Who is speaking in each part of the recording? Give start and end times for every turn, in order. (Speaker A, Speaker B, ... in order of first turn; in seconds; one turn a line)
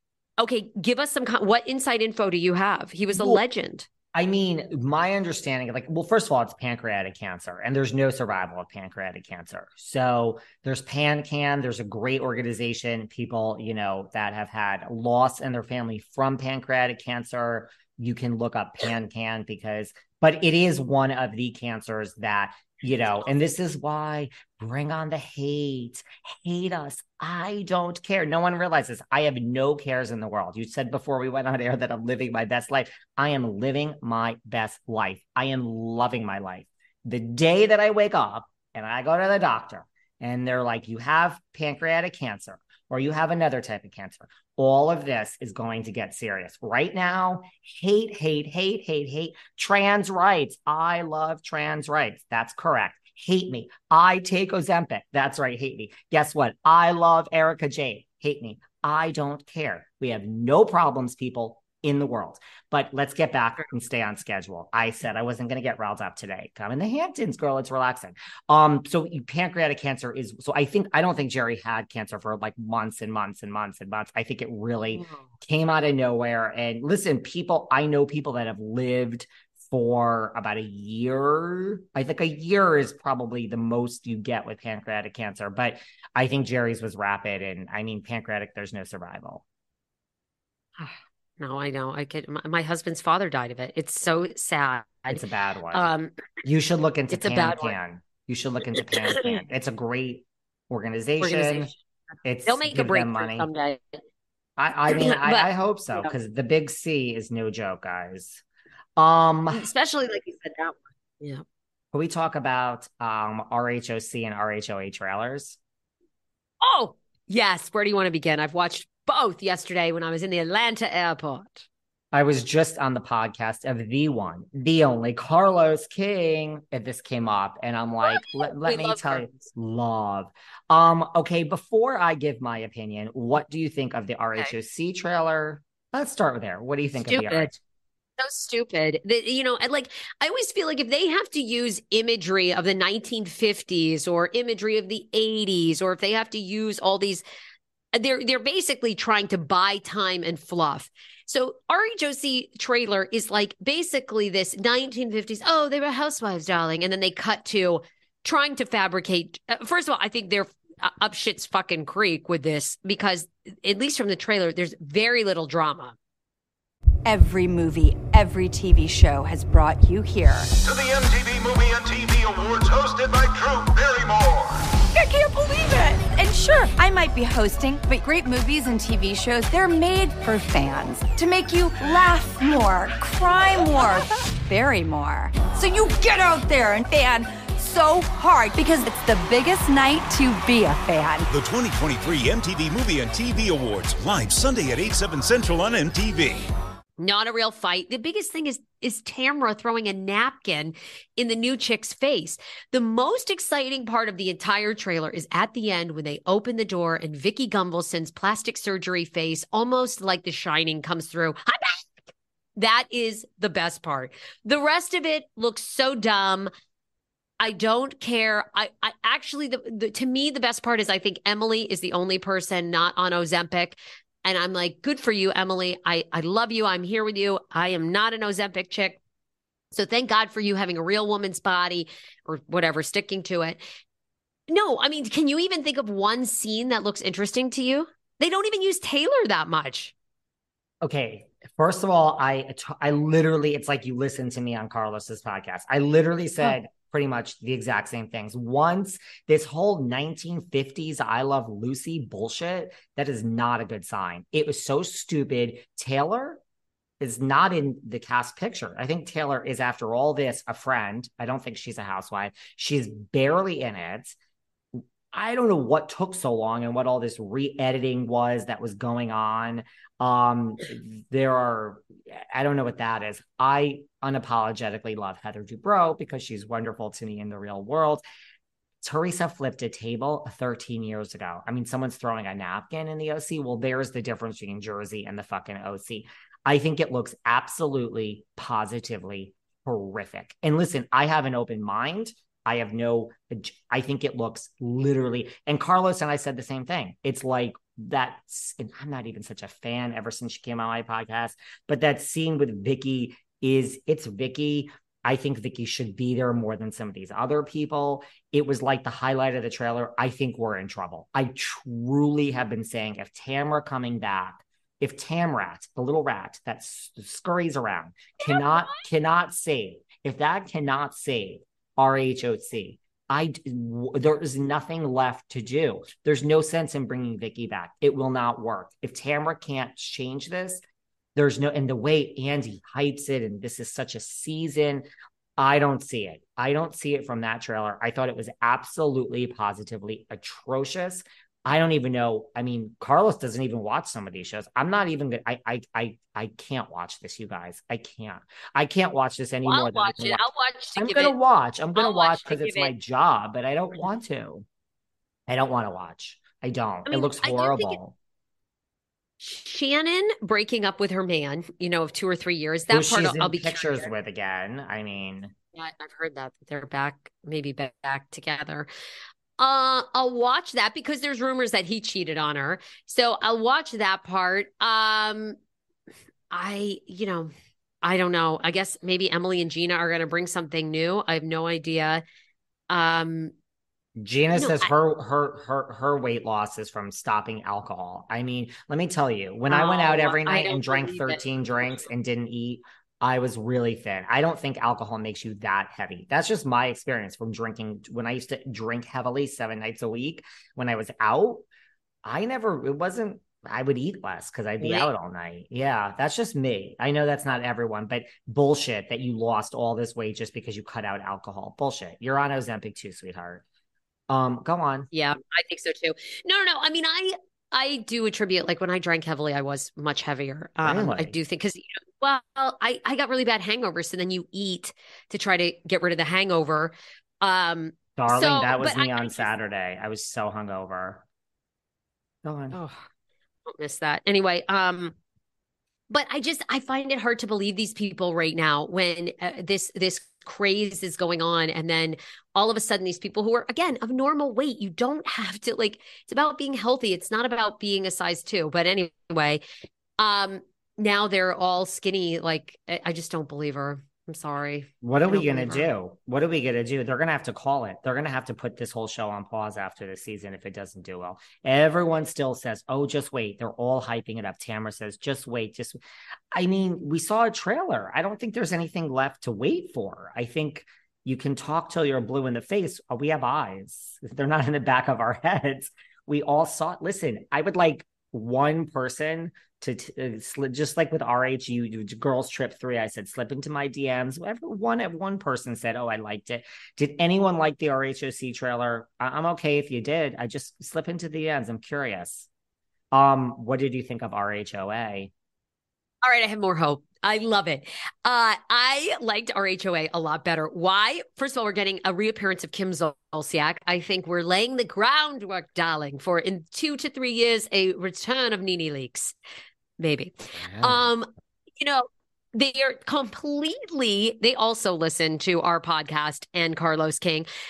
Speaker A: 0.4-3.9
Speaker B: 3.1-3.4
Speaker B: 4.1-89.4
Speaker A: 74.9-75.3
Speaker A: 90.8-96.1
Speaker B: 95.1-95.9
Speaker B: 96.4-101.7
Speaker A: 97.1-97.8
Speaker A: 98.9-99.4
Speaker A: 101.2-101.8
Speaker B: 102.2-103.5
Speaker A: 102.5-104.0
Speaker B: 104.6-108.4
Speaker A: 104.9-106.1
Speaker B: 109.0-109.7
Speaker A: 109.5-111.4
Speaker B: 111.9-115.6
Speaker A: 116.6-121.7
Speaker B: 122.1-137.6
Speaker A: 128.0-129.5
Speaker A: 137.0-137.5
Speaker A: 138.2-147.2
Speaker A: 147.9-166.0
Speaker C: 167.1-170.5
Speaker D: 170.6-174.7
Speaker C: 174.9-191.3
Speaker E: 191.3-196.4
Speaker A: 197.0-211.9
Speaker A: 212.6-216.5
Speaker A: 217.4-229.0
Speaker A: 229.7-233.6
Speaker A: 234.5-239.9
Speaker B: 240.8-256.4
Speaker B: 257.0-264.2
Speaker B: 265.1-278.0
Speaker B: 278.8-330.6
Speaker A: 318.2-318.8
Speaker B: 331.1-354.5
Speaker A: 349.5-351.2
Speaker A: 351.8-352.7
Speaker B: 355.3-357.9
Speaker A: 356.9-357.8
Speaker A: 359.2-363.9
Speaker B: 362.7-365.3
Speaker A: 365.6-368.7
Speaker A: 369.4-375.4
Speaker A: 376.3-377.3
Speaker A: 377.8-382.0
Speaker A: 382.7-383.3
Speaker B: 384.0-401.5
Speaker A: 384.4-384.7
Speaker A: 389.5-391.9
Speaker B: 402.0-413.4
Speaker A: 404.6-404.9
Speaker B: 414.1-414.9
Speaker A: 414.9-429.3
Speaker B: 420.6-421.2
Speaker B: 428.0-431.0
Speaker B: 432.2-432.6
Speaker A: 432.5-432.9
Speaker A: 433.5-434.9
Speaker A: 435.9-449.4
Speaker A: 450.0-455.7
Speaker B: 454.8-465.8
Speaker B: 466.3-492.3
Speaker B: 492.9-495.1
Speaker A: 496.0-509.1
Speaker A: 509.8-517.3
Speaker B: 510.4-510.9